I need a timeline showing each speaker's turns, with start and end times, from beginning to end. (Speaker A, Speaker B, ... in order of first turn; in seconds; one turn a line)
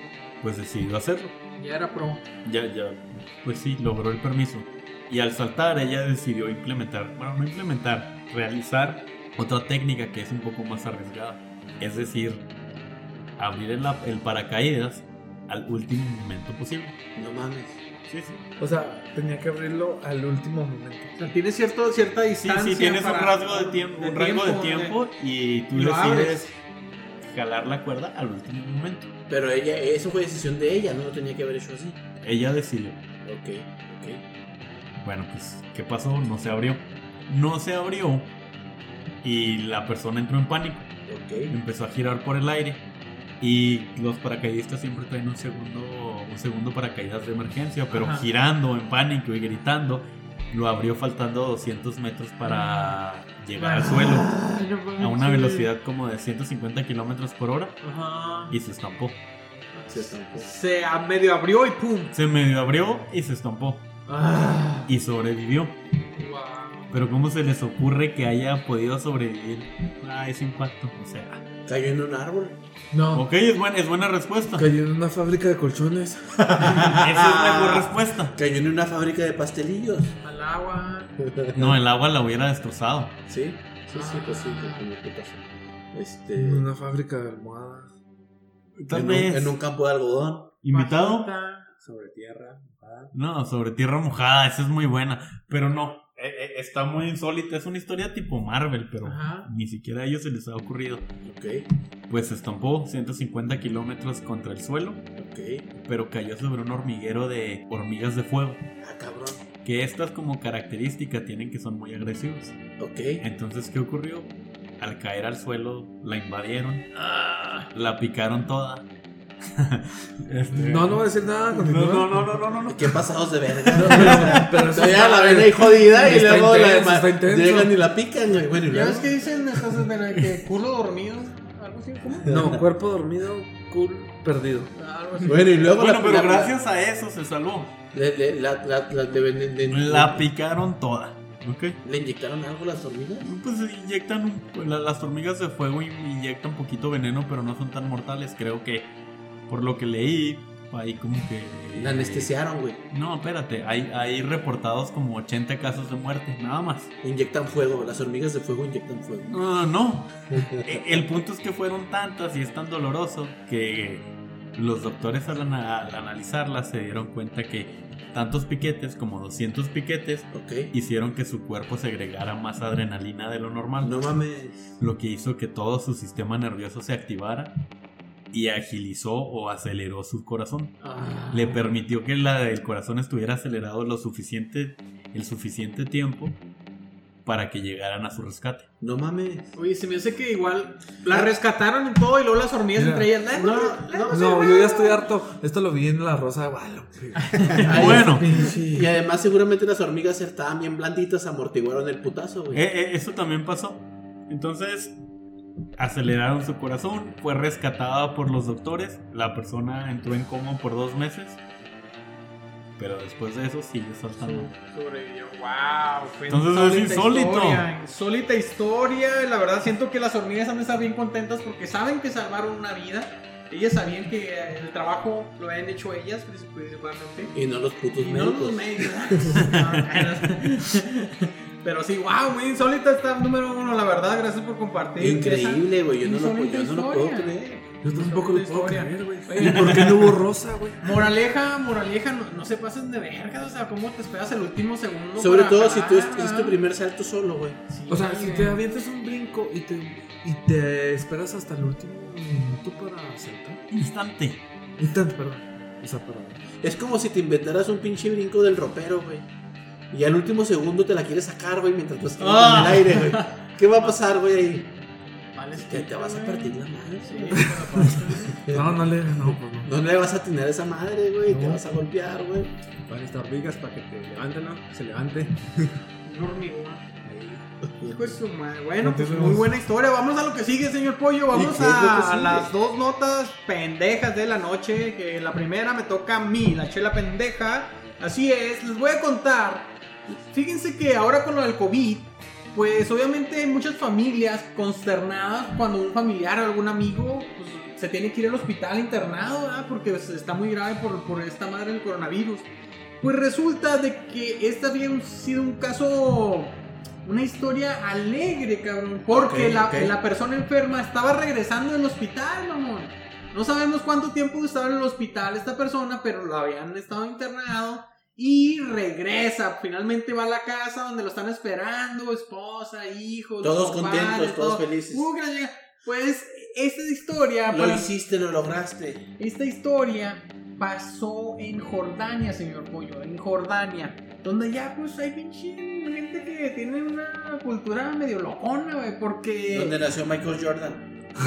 Speaker A: 0.4-1.3
Speaker B: 1.6-2.2
Speaker A: 2.4-12.4
Speaker A: 13.4-16.9
Speaker C: 17.1-17.8
Speaker A: 18.1-18.4
Speaker D: 18.6-21.1
Speaker B: 21.2-24.9
Speaker A: 22.4-26.5
Speaker B: 25.7-26.5
Speaker A: 27.2-29.1
Speaker C: 29.3-32.0
Speaker A: 32.2-33.0
Speaker C: 33.2-34.2
Speaker A: 35.0-38.3
Speaker A: 39.2-41.0
Speaker C: 41.1-41.6
Speaker A: 41.5-42.9
Speaker A: 43.4-54.4
Speaker B: 47.9-48.3
Speaker B: 52.4-53.0
Speaker B: 53.6-55.7
Speaker A: 55.0-57.8
Speaker B: 57.8-58.5
Speaker A: 58.5-59.2
Speaker B: 59.7-62.1
Speaker C: 59.9-60.5
Speaker A: 62.1-63.9
Speaker A: 64.9-65.8
Speaker B: 66.2-66.9
Speaker A: 66.9-71.4
Speaker C: 71.7-72.6
Speaker D: 72.9-73.2
Speaker A: 73.1-74.7
Speaker D: 74.5-77.0
Speaker C: 76.5-80.2
Speaker A: 76.8-78.4
Speaker B: 80.2-81.1
Speaker C: 81.2-81.8
Speaker A: 81.5-83.2
Speaker C: 83.3-86.7
Speaker B: 83.9-84.9
Speaker D: 86.3-87.9
Speaker A: 88.8-89.6
Speaker C: 88.9-90.5
Speaker A: 90.6-91.3
Speaker B: 90.7-91.7
Speaker E: 91.8-93.1
Speaker A: 93.1-101.0
Speaker B: 99.0-99.5
Speaker C: 101.2-101.7
Speaker A: 102.1-105.1
Speaker C: 105.2-105.7
Speaker A: 105.8-108.7
Speaker C: 108.8-109.4
Speaker A: 109.6-112.6
Speaker C: 112.8-113.2
Speaker A: 113.2-117.0
Speaker B: 117.1-117.7
Speaker A: 117.7-118.9
Speaker A: 119.6-123.1
Speaker D: 120.5-122.3
Speaker C: 122.7-129.4
Speaker A: 123.7-124.5
Speaker D: 123.7-127.8
Speaker B: 128.7-132.3
Speaker C: 132.2-132.6
Speaker D: 132.2-134.7
Speaker B: 134.7-135.5
Speaker C: 135.2-136.6
Speaker A: 135.6-137.7
Speaker C: 137.9-140.2
Speaker A: 139.7-141.8
Speaker C: 141.8-143.3
Speaker A: 143.2-148.9
Speaker A: 149.5-152.3
Speaker C: 151.7-152.8
Speaker A: 152.9-156.9
Speaker C: 157.0-159.4
Speaker A: 159.3-174.0
Speaker C: 160.3-160.8
Speaker C: 170.3-170.7
Speaker C: 173.8-174.7
Speaker A: 174.8-177.5
Speaker A: 178.3-180.8
Speaker B: 180.8-181.6
Speaker A: 181.3-186.4
Speaker A: 187.2-188.7
Speaker C: 188.8-189.6
Speaker B: 189.6-195.1
Speaker C: 191.1-191.3
Speaker D: 192.7-193.1
Speaker C: 193.3-194.6
Speaker D: 194.1-198.9
Speaker B: 197.3-197.9
Speaker C: 197.6-202.6
Speaker A: 197.7-198.3
Speaker A: 202.5-204.9
Speaker A: 205.8-211.4
Speaker A: 212.8-214.5
Speaker B: 214.2-227.3
Speaker A: 216.3-217.7
Speaker C: 227.3-229.4
Speaker B: 228.0-237.3
Speaker A: 229.4-230.1
Speaker C: 235.0-237.6
Speaker D: 237.8-241.1
Speaker B: 237.9-240.1
Speaker B: 240.8-246.6
Speaker C: 245.2-247.6
Speaker B: 247.7-248.6
Speaker D: 247.9-253.6
Speaker A: 253.7-254.4
Speaker D: 254.8-256.4
Speaker C: 256.6-259.3
Speaker C: 259.9-264.7
Speaker B: 262.2-264.0
Speaker B: 265.4-268.4
Speaker C: 265.5-268.7
Speaker D: 267.4-269.7
Speaker C: 269.6-272.5
Speaker D: 271.3-271.6
Speaker E: 272.9-275.8
Speaker B: 276.1-276.8
Speaker E: 277.0-277.5
Speaker B: 277.8-302.5
Speaker D: 278.8-279.5
Speaker C: 281.3-282.5
Speaker B: 303.0-327.9
Speaker C: 309.1-309.9
Speaker C: 323.4-325.1
Speaker C: 327.5-329.1
Speaker B: 329.2-339.8
Speaker C: 339.5-340.9